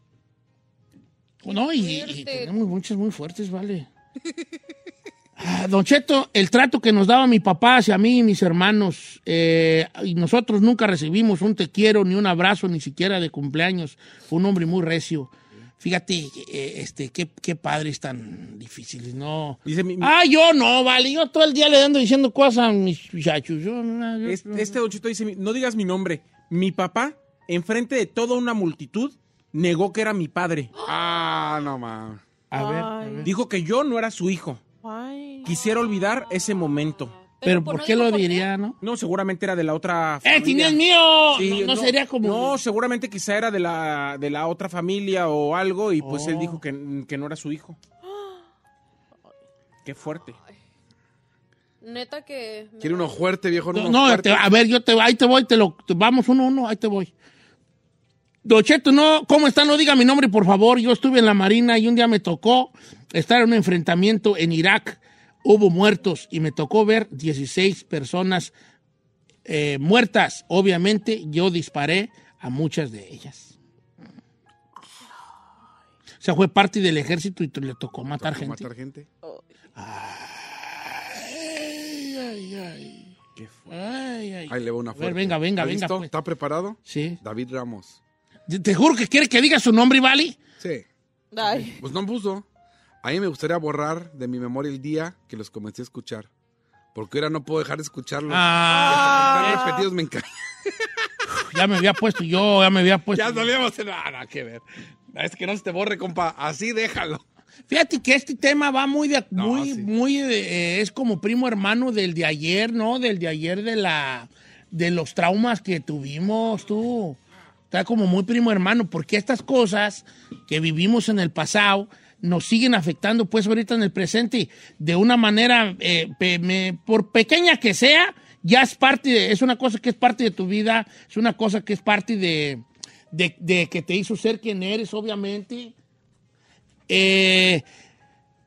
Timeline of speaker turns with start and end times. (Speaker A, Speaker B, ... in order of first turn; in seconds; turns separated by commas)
Speaker A: 1.4-3.9, Speaker B: 1.5-2.5, Speaker A: 5.4-24.8, Speaker C: 19.6-20.1, Speaker C: 24.2-30.7, Speaker D: 30.8-32.2, Speaker A: 32.5-33.3, Speaker E: 32.5-33.3, Speaker C: 33.2-34.6, Speaker E: 34.8-35.5, Speaker C: 35.4-37.1, Speaker B: 37.4-38.5, Speaker A: 37.4-38.8, Speaker C: 38.8-40.8, Speaker A: 40.2-42.6, Speaker C: 41.3-47.8, Speaker A: 46.0-46.6, Speaker C: 49.9-50.4, Speaker B: 51.8-53.2, Speaker D: 52.8-54.5, Speaker A: 53.7-57.1, Speaker A: 58.5-68.5, Speaker A: 69.5-73.5, Speaker A: 76.2-78.7, Speaker D: 78.1-79.1, Speaker A: 79.8-83.1, Speaker C: 83.4-83.8, Speaker A: 83.7-86.1, Speaker D: 84.5-88.0, Speaker A: 86.9-87.2, Speaker A: 88.5-90.4, Speaker D: 90.6-90.8, Speaker E: 91.3-91.8, Speaker D: 91.8-92.5, Speaker D: 93.0-96.3, Speaker D: 96.9-100.9, Speaker A: 98.3-99.7, Speaker E: 98.7-99.9, Speaker A: 101.3-103.5, Speaker D: 103.2-107.2, Speaker A: 107.7-117.2, Speaker D: 109.4-109.9, Speaker A: 117.7-135.7, Speaker A: 136.9-137.7